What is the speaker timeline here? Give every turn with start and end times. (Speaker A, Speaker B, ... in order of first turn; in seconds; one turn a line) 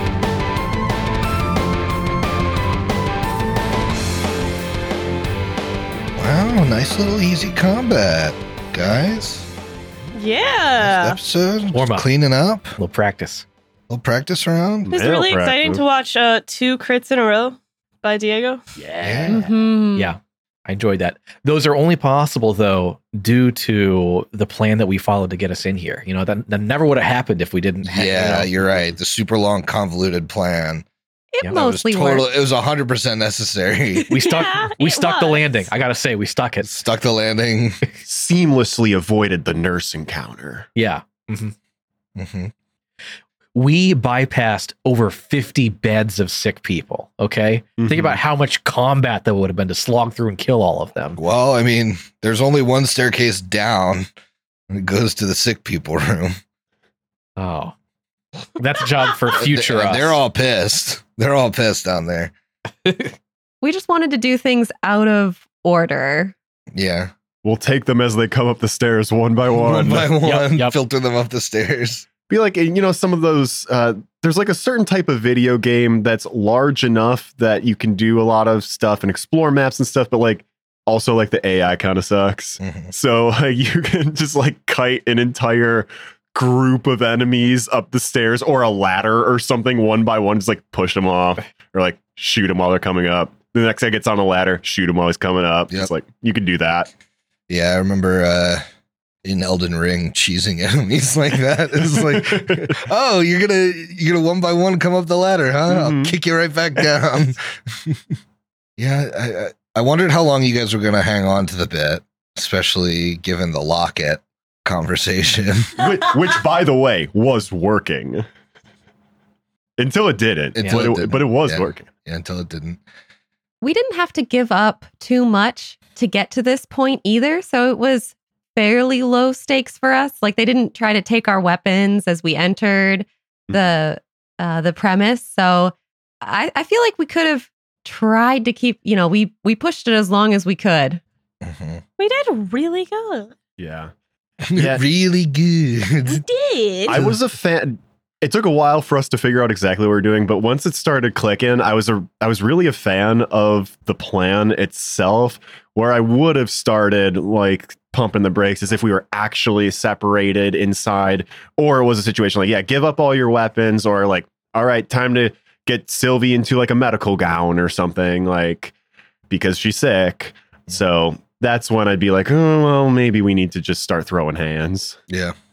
Speaker A: 6.2-9.5
Speaker B: 10.1-11.2
Speaker A: 10.8-12.7
Speaker C: 11.7-12.1
Speaker C: 12.8-13.4
Speaker A: 13.9-15.0
Speaker D: 14.9-15.8
Speaker B: 14.9-18.6
Speaker D: 18.8-19.5
Speaker A: 19.0-19.4
Speaker E: 19.3-20.1
Speaker C: 19.9-28.5
Speaker A: 27.9-30.9
Speaker D: 28.3-28.8
Speaker E: 31.3-32.3
Speaker A: 31.5-34.1
Speaker C: 34.1-36.7
Speaker B: 34.3-35.7
Speaker A: 36.6-37.8
Speaker D: 38.0-40.7
Speaker C: 40.7-41.5
Speaker A: 42.1-42.5
Speaker C: 43.5-51.2
Speaker D: 47.8-48.2
Speaker A: 51.2-54.1
Speaker A: 54.7-56.4
Speaker C: 57.4-57.7
Speaker C: 58.5-60.2
Speaker A: 59.3-62.3
Speaker C: 62.8-63.1
Speaker E: 63.6-66.3
Speaker A: 66.7-67.1
Speaker D: 67.4-70.1
Speaker A: 69.6-72.1
Speaker C: 70.2-70.8
Speaker D: 72.3-96.9
Speaker A: 82.6-82.9
Speaker A: 97.5-98.6
Speaker A: 99.2-108.0
Speaker D: 102.3-102.6
Speaker D: 105.7-106.1
Speaker A: 108.8-115.9
Speaker D: 115.8-118.2
Speaker D: 119.8-121.9
Speaker A: 120.5-122.8
Speaker E: 123.6-141.0
Speaker A: 141.4-141.8
Speaker B: 142.0-143.3
Speaker D: 143.6-143.9
Speaker A: 144.4-146.2
Speaker D: 144.5-144.8
Speaker B: 146.1-147.0
Speaker D: 146.8-168.7
Speaker A: 146.9-147.2
Speaker D: 169.3-175.0
Speaker A: 175.1-175.3